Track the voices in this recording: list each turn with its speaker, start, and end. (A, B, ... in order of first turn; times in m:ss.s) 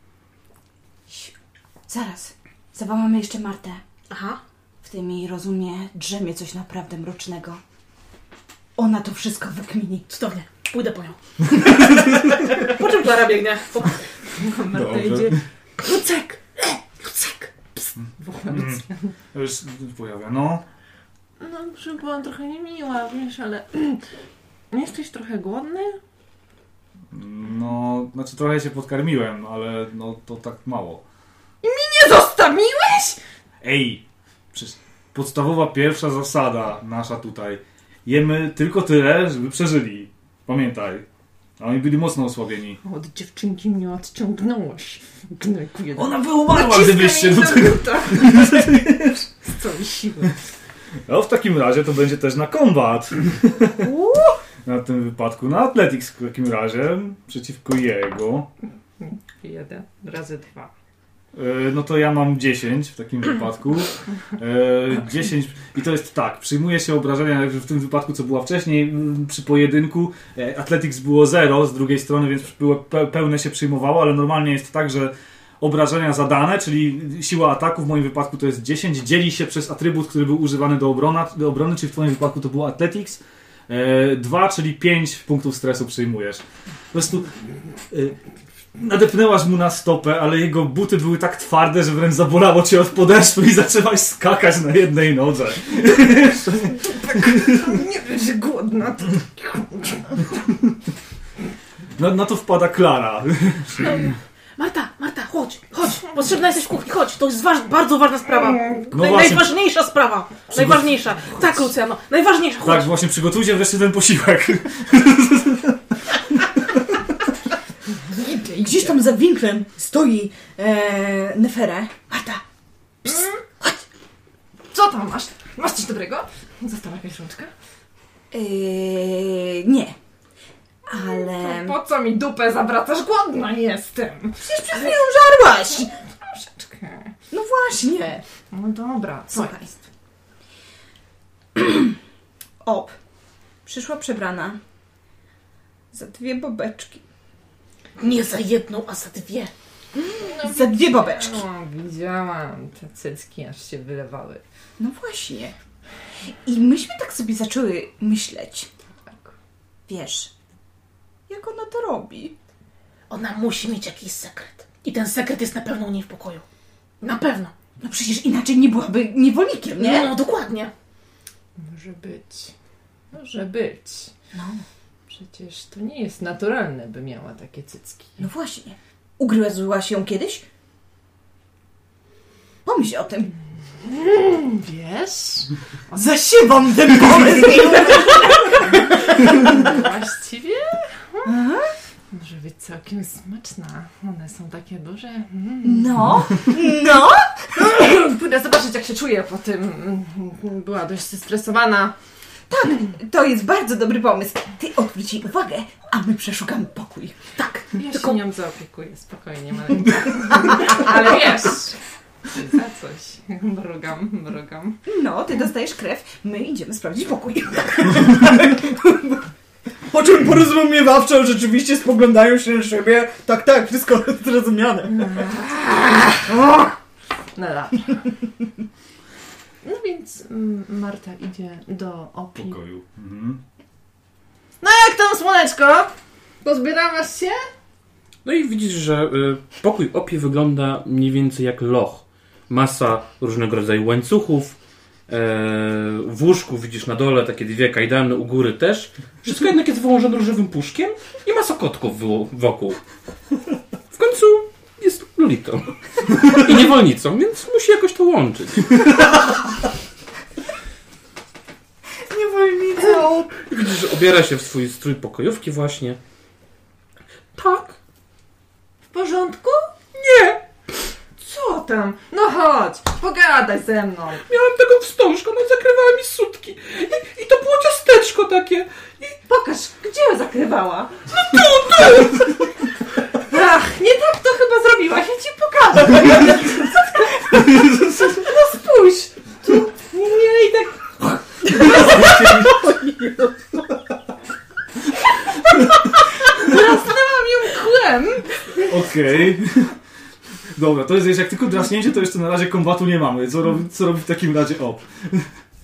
0:01.1-0:01.3 A
0:01.9-0:03.8 A
0:04.1-0:04.4 B
0:04.8-0:07.6 A
0:08.8-0:10.1 A
0:10.1-0:11.9 B
0:12.0-0:12.4 C
0:12.4-0:14.1 B
0:14.3-0:19.1 D
0:14.7-0:15.4 C
0:18.0-0:20.6 C
0:21.4-0:24.0 D
0:24.7-0:26.0 D
0:27.1-0:31.0 C
0:31.6-0:33.2 D
0:33.6-0:41.0 C
0:41.6-0:42.8 C
0:42.8-0:48.9 D
0:46.0-0:49.2 C
0:49.4-0:50.4 D
0:51.1-0:53.9 C
0:53.9-0:54.3 A
0:54.6-0:58.5 C
0:59.0-1:00.7 D
1:01.3-1:27.3 C
1:27.9-1:28.2 C
1:28.8-1:37.7 C
1:36.8-1:40.4 D
1:42.0-1:44.1 C
1:43.8-1:52.9 B
1:48.6-1:48.8 D
1:48.9-1:49.5 C
1:50.5-1:51.6 C
1:52.6-1:57.2 C
1:58.1-2:02.4 A
2:03.0-2:03.8 A
2:04.7-2:07.5 D
2:08.3-2:10.0 A
2:10.9-2:11.8 A
2:10.9-2:15.0 D
2:14.4-2:15.9 A
2:15.7-2:17.1 D
2:17.3-2:18.2 A
2:18.5-2:19.7 D
2:19.3-2:19.7 A
2:21.6-2:21.9 A
2:22.6-2:23.0 A
2:23.7-2:24.6 A
2:25.9-2:27.0 A
2:28.0-2:29.5 B
2:29.9-2:31.4 A
2:30.2-2:34.4 D
2:34.8-2:35.6 A
2:36.3-2:38.7 A
2:39.1-2:39.3 D
2:39.9-2:40.3 A
2:41.3-2:42.4 A
2:43.1-2:46.4 B
2:47.0-2:47.5 B
2:47.8-2:50.1 A
2:49.8-2:50.7 B
2:51.6-2:52.5 D
2:53.1-2:54.1 D
2:54.3-2:54.6 A
2:55.1-2:58.2 D
2:58.2-3:00.4 A
3:02.6-3:03.3 A
3:03.8-3:06.2 D
3:06.0-3:09.7 A
3:07.2-3:11.3 D
3:11.2-3:11.7 A
3:12.1-3:16.2 D
3:15.6-3:17.5 A
3:17.5-3:22.0 D
3:22.5-3:27.2 A
3:27.4-3:28.2 B
3:27.7-3:34.8 D
3:34.9-3:39.3 A
3:39.9-3:45.4 A
3:44.9-3:46.2 D
3:46.2-3:46.7 A
3:47.4-3:48.1 D
3:49.6-3:52.6 D
3:52.4-3:53.4 C
3:54.6-3:57.5 D
3:58.2-4:12.8 E
4:13.9-4:19.1 E
4:22.1-4:23.3 A
4:23.4-4:26.0 E
4:27.4-4:27.7 E
4:28.9-4:29.7 D
4:30.0-4:30.4 B
4:31.2-4:34.3 D
4:34.3-4:39.1 E
4:39.2-4:41.0 D
4:41.2-4:42.3 E
4:41.4-4:42.0 B
4:43.1-4:50.9 D
4:47.4-4:48.1 C
4:51.0-4:52.6 C
4:51.6-4:52.3 D
4:51.7-4:53.6 B
4:56.2-4:58.6 D
4:58.6-4:59.8 C
5:00.6-5:05.3 C